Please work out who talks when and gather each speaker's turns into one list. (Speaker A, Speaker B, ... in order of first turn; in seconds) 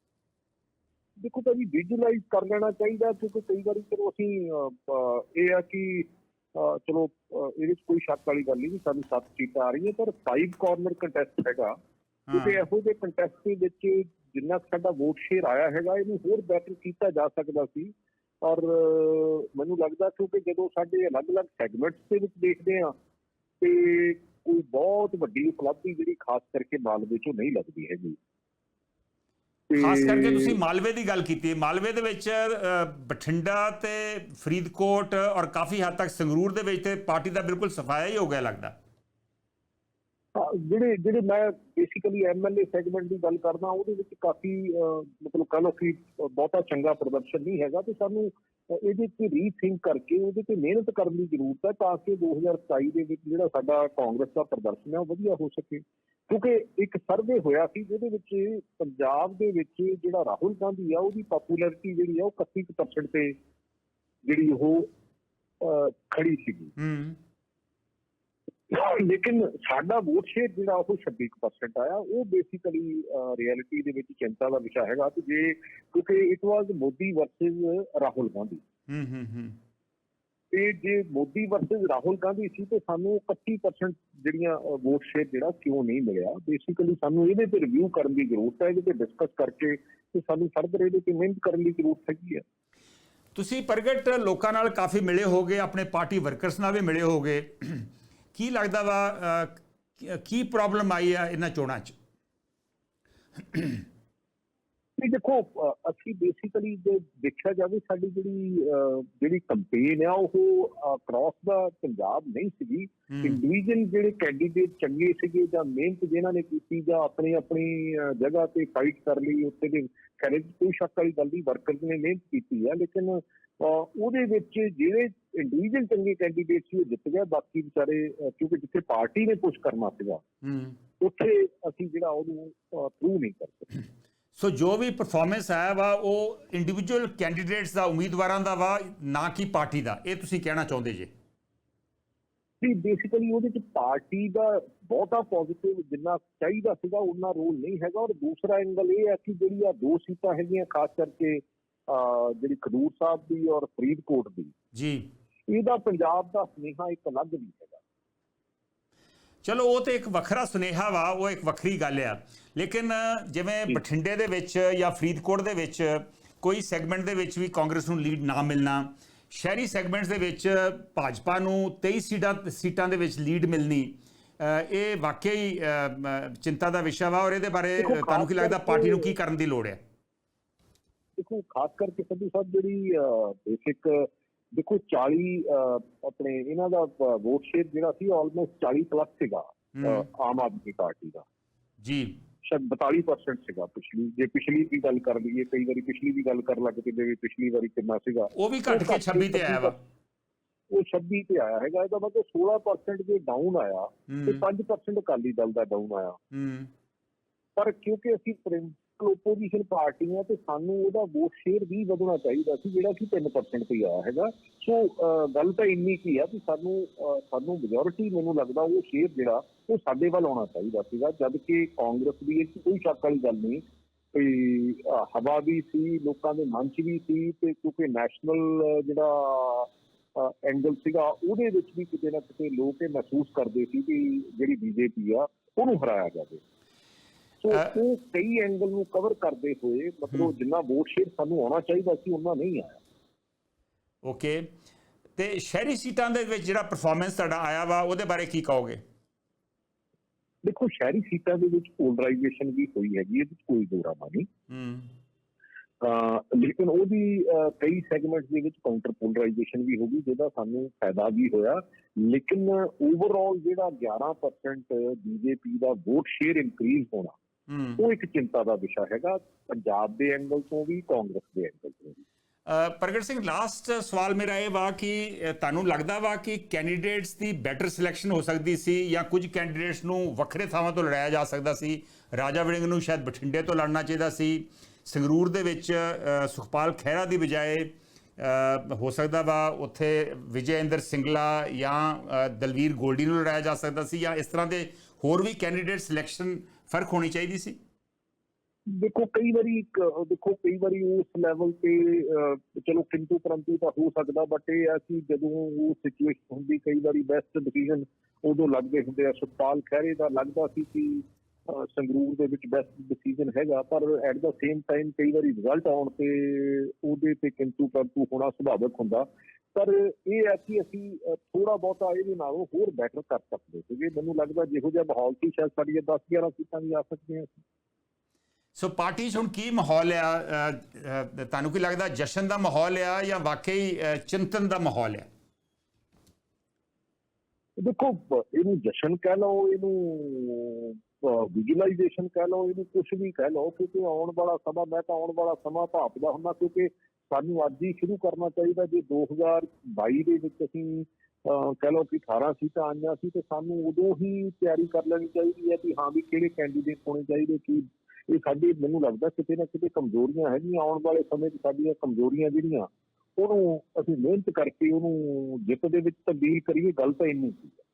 Speaker A: 1.2-11.7, 12.3-22.9, 23.6-28.2, 29.7-30.6, 40.3-63.4, 64.2-64.9, 65.6-66.7, 68.7-78.6, 80.5-92.4, 105.0-130.2, 131.0-133.7, 142.6-154.5, 155.5-157.8, 177.8-179.1, 181.2-191.2, 192.4-199.8, 200.7-206.2, 207.6-236.4, 237.4-242.8, 250.4-254.3, 255.8-267.1, 267.8-272.0, 298.7-327.4, 337.6-367.6
Speaker B: 12.3-12.6, 29.7-38.7, 66.8-67.2, 78.9-79.6, 93.3-102.0, 103.4-103.8, 113.1-113.4, 130.4-130.8, 134.3-141.1, 154.7-155.1, 159.4-179.8, 189.7-190.0, 191.8-192.2, 198.3-199.8, 204.1-204.4, 206.3-206.7, 244.0-244.5, 245.2-248.8, 254.5-254.9, 267.5-267.8, 272.4-297.6, 328.5-335.1